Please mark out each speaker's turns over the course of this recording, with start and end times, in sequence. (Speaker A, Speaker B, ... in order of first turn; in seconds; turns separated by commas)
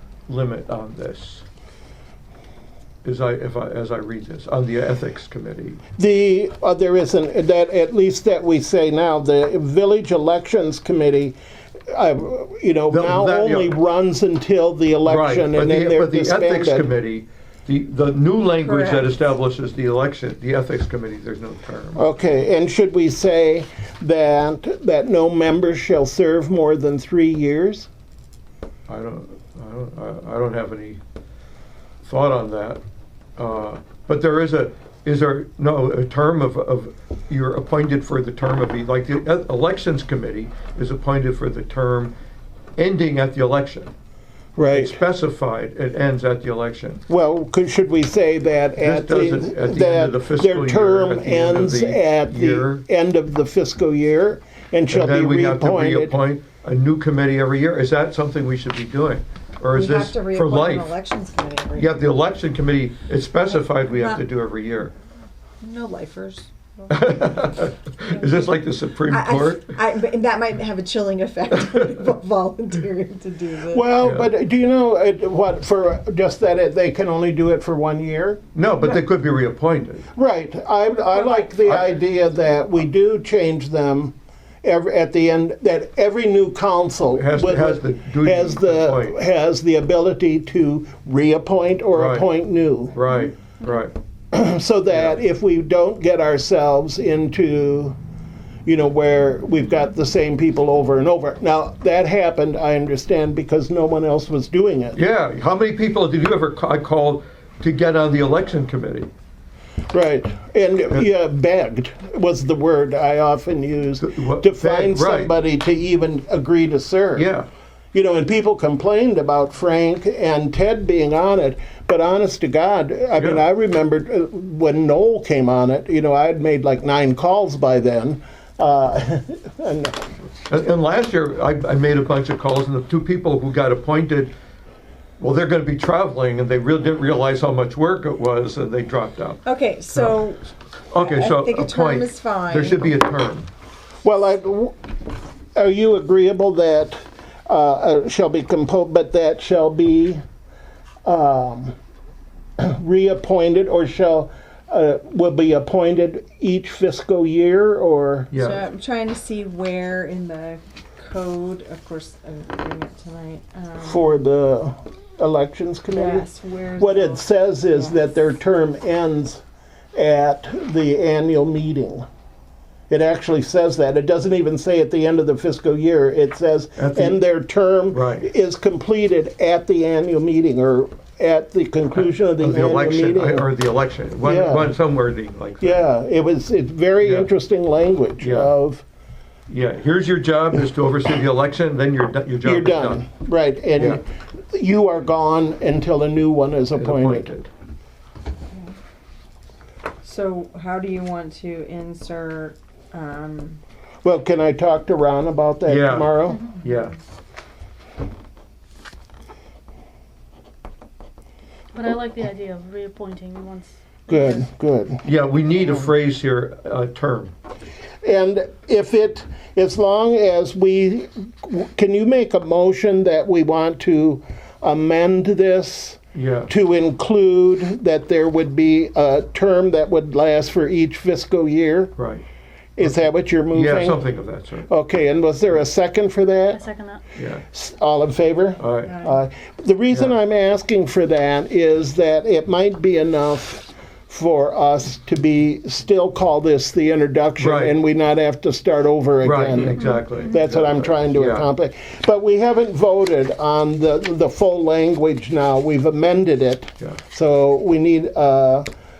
Speaker A: 0.3-1.4, Speaker A: 3.0-5.8, Speaker B: 6.0-11.4, Speaker B: 11.9-16.9, Speaker A: 12.9-13.8, Speaker A: 15.0-22.1, Speaker C: 18.6-19.1, Speaker B: 21.9-27.9, Speaker A: 28.9-31.0, Speaker A: 32.0-32.8, Speaker A: 33.4-42.1, Speaker A: 42.8-43.9, Speaker B: 44.5-45.0, Speaker A: 44.7-47.0, Speaker B: 47.1-56.2, Speaker A: 48.8-52.8, Speaker A: 54.9-60.9, Speaker C: 59.7-62.0, Speaker A: 61.8-64.9, Speaker C: 65.6-67.3, Speaker A: 66.9-69.8, Speaker C: 68.1-73.9, Speaker A: 71.5-71.9, Speaker B: 73.7-78.4, Speaker A: 74.0-74.3, Speaker A: 78.5-80.0, Speaker B: 80.2-93.0, Speaker A: 87.1-89.2, Speaker A: 91.9-92.3, Speaker A: 92.9-93.9, Speaker B: 94.3-98.0, Speaker A: 94.9-95.2, Speaker B: 98.7-105.0, Speaker A: 104.9-109.1, Speaker B: 109.9-117.3, Speaker A: 114.0-115.3, Speaker A: 117.2-117.5, Speaker B: 117.9-130.1, Speaker A: 123.2-123.4, Speaker A: 130.5-134.3, Speaker A: 135.2-139.4, Speaker C: 139.4-140.4, Speaker A: 139.9-140.2, Speaker A: 140.9-143.5, Speaker C: 140.9-142.9, Speaker B: 144.0-144.7, Speaker B: 145.5-150.2, Speaker B: 151.0-151.7, Speaker B: 152.6-158.3, Speaker A: 158.3-158.6, Speaker C: 158.4-164.0, Speaker B: 163.8-166.2, Speaker C: 165.9-167.9, Speaker B: 166.8-169.4, Speaker B: 169.9-172.1, Speaker B: 172.9-183.5, Speaker A: 176.8-177.2, Speaker A: 177.9-178.3, Speaker A: 181.9-185.9, Speaker B: 184.2-184.7, Speaker B: 185.6-188.8, Speaker A: 187.0-187.3, Speaker A: 188.2-188.5, Speaker A: 189.5-193.0, Speaker B: 192.4-197.3, Speaker A: 196.7-197.5, Speaker C: 200.0-203.6, Speaker B: 204.0-206.4, Speaker A: 205.7-207.0, Speaker D: 211.7-214.4, Speaker B: 214.1-215.0, Speaker A: 215.0-217.3, Speaker B: 218.0-231.9, Speaker A: 226.1-226.5, Speaker A: 232.0-232.2, Speaker B: 232.8-234.0, Speaker A: 232.8-234.7, Speaker B: 234.7-236.6, Speaker D: 236.5-237.0, Speaker A: 237.2-237.4, Speaker B: 237.5-258.6, Speaker A: 238.6-238.9, Speaker C: 238.8-239.2, Speaker A: 247.4-247.7, Speaker A: 249.2-251.5, Speaker D: 249.8-250.2